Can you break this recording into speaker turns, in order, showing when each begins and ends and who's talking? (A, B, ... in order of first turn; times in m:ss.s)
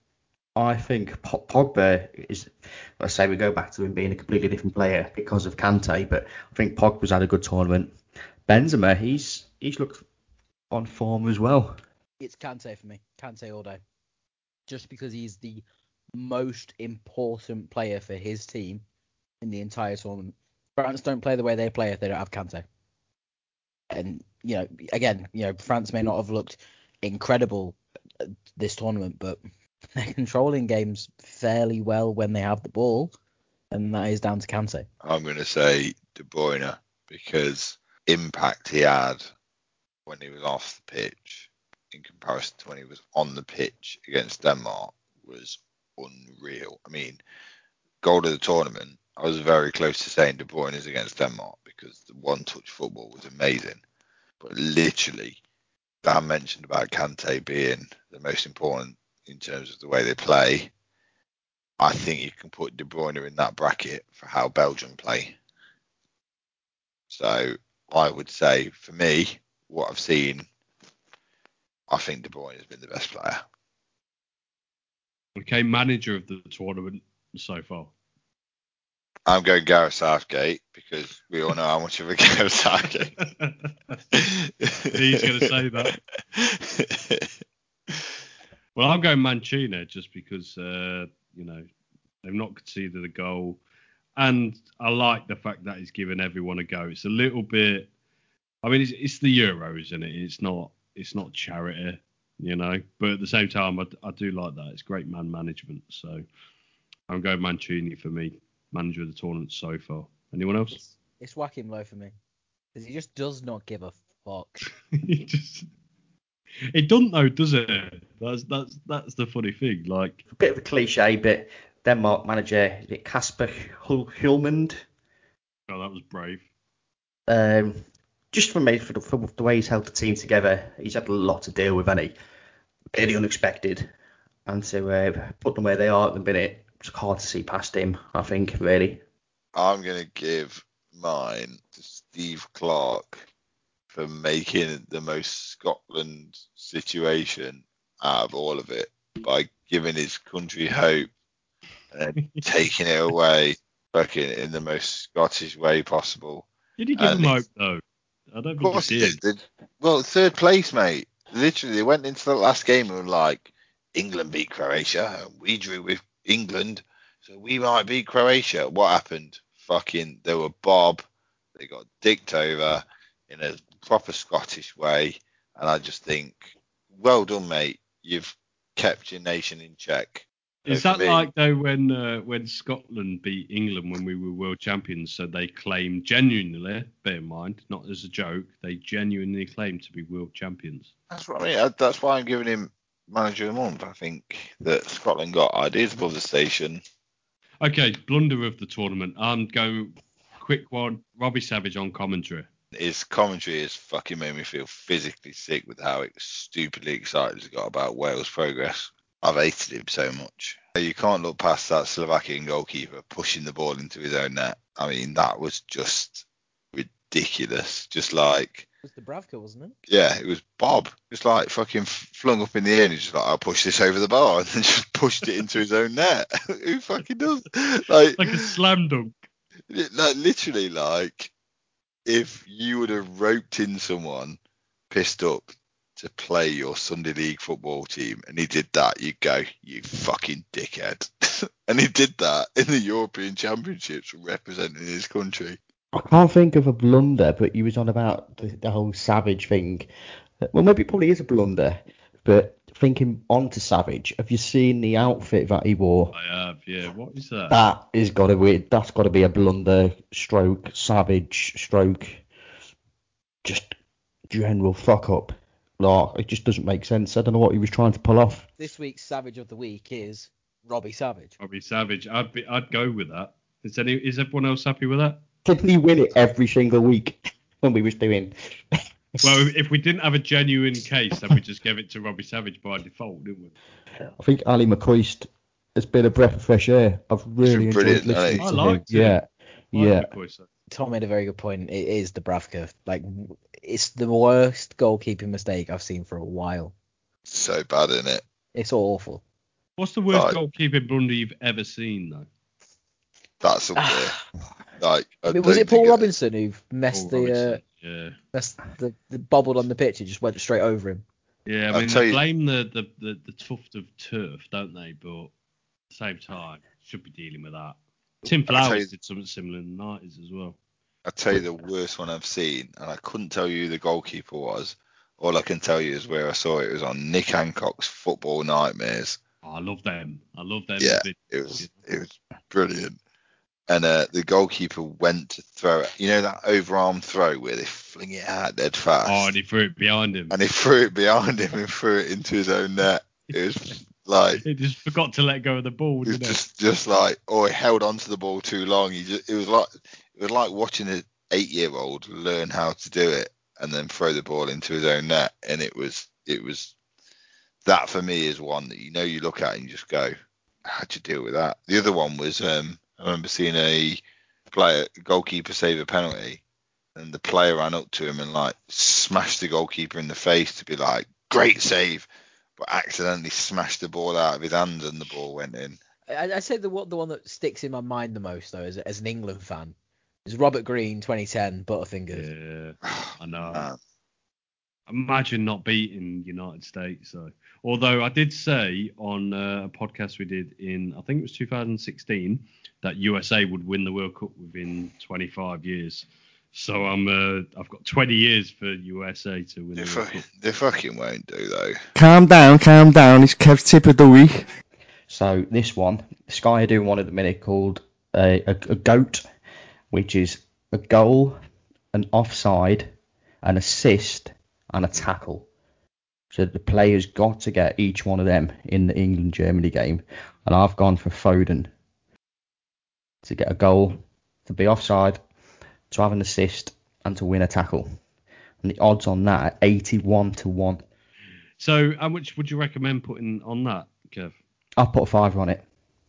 0:00.6-0:10.0 A
0:10.7-0:11.8 A
0:12.2-0:13.8 B
0:14.7-0:15.6 B
0:16.1-0:18.8 B
0:19.4-0:22.6 B
0:23.9-0:29.4 B
0:30.0-0:33.1 B
0:33.7-0:34.9 B
0:35.0-0:39.2 C
0:40.1-0:47.2 C
0:48.0-0:53.8 C
0:54.4-0:55.4 C
0:56.0-1:00.7 C
1:01.8-1:05.4 C
1:07.1-1:10.5 C
1:11.9-1:13.4 C
1:15.4-1:17.9 D
1:19.3-1:23.2 C
1:23.3-1:24.0 D
1:24.1-1:25.2 C
1:24.9-1:25.9 D
1:25.9-1:27.3 C
1:28.8-1:31.6 D
1:32.2-1:33.6 D
1:34.2-1:37.9 D
1:38.6-1:46.2 D
1:47.1-1:50.8 D
1:50.7-1:52.1 B
1:52.7-1:54.7 B
1:54.9-1:55.7 D
1:56.7-2:00.2 D
2:00.3-2:04.8 A
2:05.7-2:06.4 D
2:07.3-2:12.1 A
2:12.9-2:13.9 A
2:14.4-2:19.0 A
2:19.5-2:23.3 C
2:23.9-2:31.1 C
2:31.9-2:36.5 C
2:32.2-2:32.4 D
2:36.8-2:39.2 D
2:37.0-2:37.4 C
2:38.6-3:01.3 C
3:00.6-3:10.9 D
3:11.1-3:16.8 C
3:17.6-3:22.5 D
3:22.7-3:38.6 C
3:38.8-3:39.8 B
3:39.9-3:48.5 C
3:48.2-3:49.1 D
3:49.7-3:51.3 C
3:52.1-3:54.4 C
3:54.9-4:05.6 C
4:05.9-4:09.9 A
4:10.5-4:16.1 A
4:16.1-4:17.6 D
4:17.5-4:22.2 A
4:23.4-4:23.7 A
4:24.3-4:28.5 A
4:28.6-4:31.3 B
4:31.4-4:35.2 D
4:35.4-4:38.3 A
4:39.2-4:43.5 D
4:44.2-4:50.1 A
4:47.4-4:48.5 C
4:48.4-4:49.2 D
4:49.7-4:50.5 D
4:50.7-4:56.7 B
4:57.3-4:58.2 C
4:58.5-4:59.2 B
4:59.8-5:02.3 D
5:00.1-5:00.4 C
5:03.4-5:04.1 C
5:03.8-5:04.2 B
5:04.8-5:06.1 C
5:05.3-5:07.6 B
5:06.9-5:08.2 D
5:08.3-5:11.0 B
5:11.4-5:15.3 D
5:11.7-5:12.2 C
5:15.9-5:20.6 D
5:18.5-5:18.9 C
5:21.0-5:29.2 C
5:29.4-5:31.7 D
5:30.8-5:33.0 C
5:33.7-5:39.3 C
5:39.0-5:40.4 D
5:40.3-5:44.4 C
5:44.4-5:46.4 D
5:46.0-5:56.7 C
5:57.6-6:00.1 C
6:00.6-6:06.4 C
6:06.9-6:15.8 C
6:16.1-6:22.3 B
6:22.1-6:23.7 D
6:22.8-6:23.8 C
6:24.9-6:40.2 D
6:39.8-6:41.8 C
6:42.0-6:44.5 E
6:45.1-6:49.2 A
6:49.9-6:51.4 A
6:51.9-6:52.9 A
6:53.4-6:55.5 A
6:56.3-7:01.7 A
7:03.2-7:05.2 A
7:05.9-7:08.0 A
7:08.6-7:10.8 A
7:11.6-7:14.4 D
7:14.8-7:15.6 A